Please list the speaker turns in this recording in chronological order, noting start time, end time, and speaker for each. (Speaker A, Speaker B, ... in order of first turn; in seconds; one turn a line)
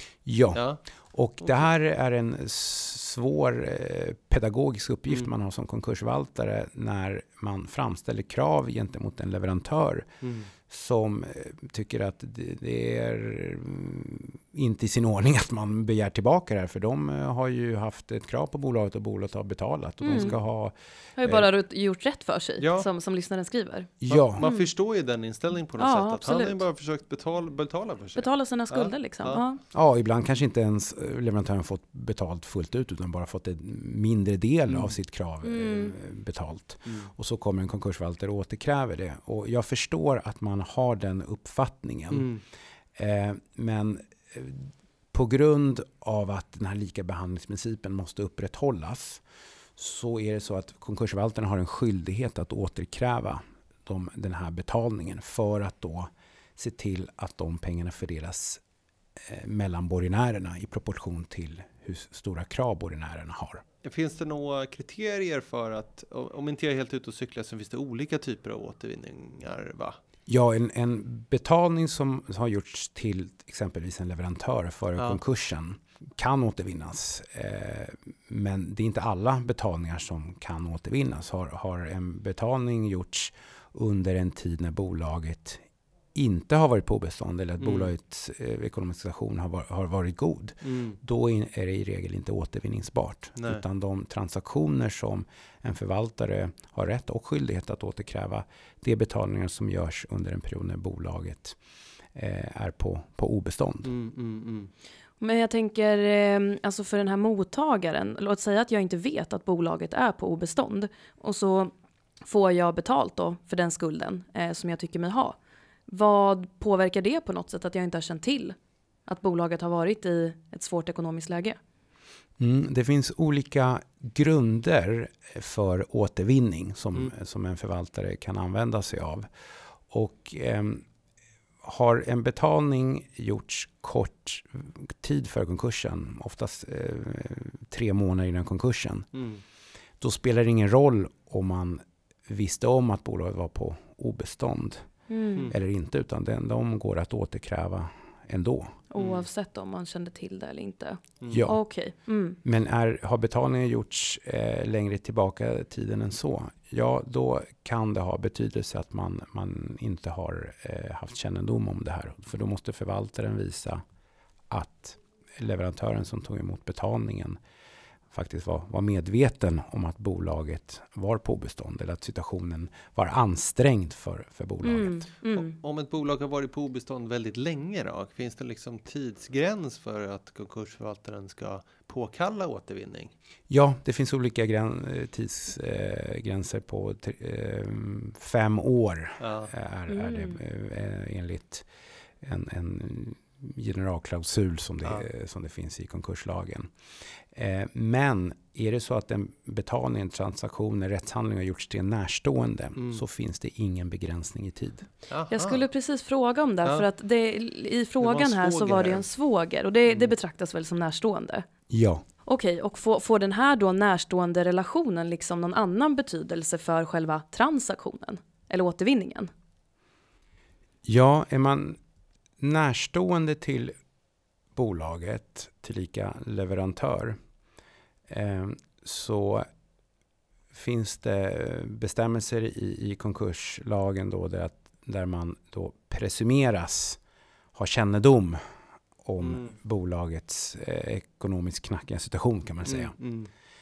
Speaker A: 0.2-10.1
Speaker B: 0.5-0.8
Speaker B: 1.4-1.7
Speaker B: 10.2-10.5
Speaker A: 10.7-21.5
Speaker C: 20.0-20.3
Speaker C: 21.2-24.7
Speaker B: 22.6-22.9
Speaker A: 24.0-24.4
Speaker B: 24.1-29.4
Speaker C: 25.8-26.6
Speaker C: 28.2-29.6
Speaker A: 29.7-42.3
Speaker B: 34.7-35.0
Speaker C: 35.4-35.9
Speaker B: 42.1-42.4
Speaker A: 43.0-49.2
Speaker A: 49.8-58.6
Speaker A: 59.2-63.6
Speaker B: 63.8-70.0
Speaker A: 70.3-85.6
Speaker A: 86.1-101.6
Speaker B: 87.6-87.9
Speaker B: 90.6-91.0
Speaker B: 93.4-93.6
Speaker A: 102.1-103.9
Speaker B: 103.8-104.7
Speaker C: 105.2-111.7
Speaker C: 112.2-115.4
Speaker C: 115.9-121.6
Speaker A: 122.4-129.3
Speaker A: 129.9-130.8
Speaker A: 131.6-139.1
Speaker B: 139.1-139.4
Speaker A: 140.0-144.8
Speaker C: 145.1-145.5
Speaker A: 145.5-148.8
Speaker C: 148.9-152.4
Speaker B: 149.0-149.2
Speaker B: 151.2-151.4
Speaker A: 151.3-151.6
Speaker A: 152.4-163.8
Speaker A: 164.5-167.4
Speaker A: 168.1-175.1
Speaker C: 174.6-175.5
Speaker B: 175.3-183.1
Speaker A: 183.5-191.7
Speaker B: 189.2-189.5
Speaker C: 189.9-190.4
Speaker A: 192.2-196.7
Speaker A: 197.3-204.9
Speaker B: 202.8-203.0
Speaker B: 205.1-205.6
Speaker C: 205.3-211.4
Speaker B: 208.0-209.0
Speaker B: 209.9-210.1
Speaker A: 211.7-212.0
Speaker C: 212.2-219.3
Speaker A: 220.8-221.8
Speaker A: 222.4-223.7
Speaker A: 224.5-227.2
Speaker A: 228.1-229.4
Speaker A: 230.5-237.0
Speaker A: 237.5-238.4
Speaker A: 239.0-242.9
Speaker B: 239.2-239.5
Speaker B: 242.7-243.3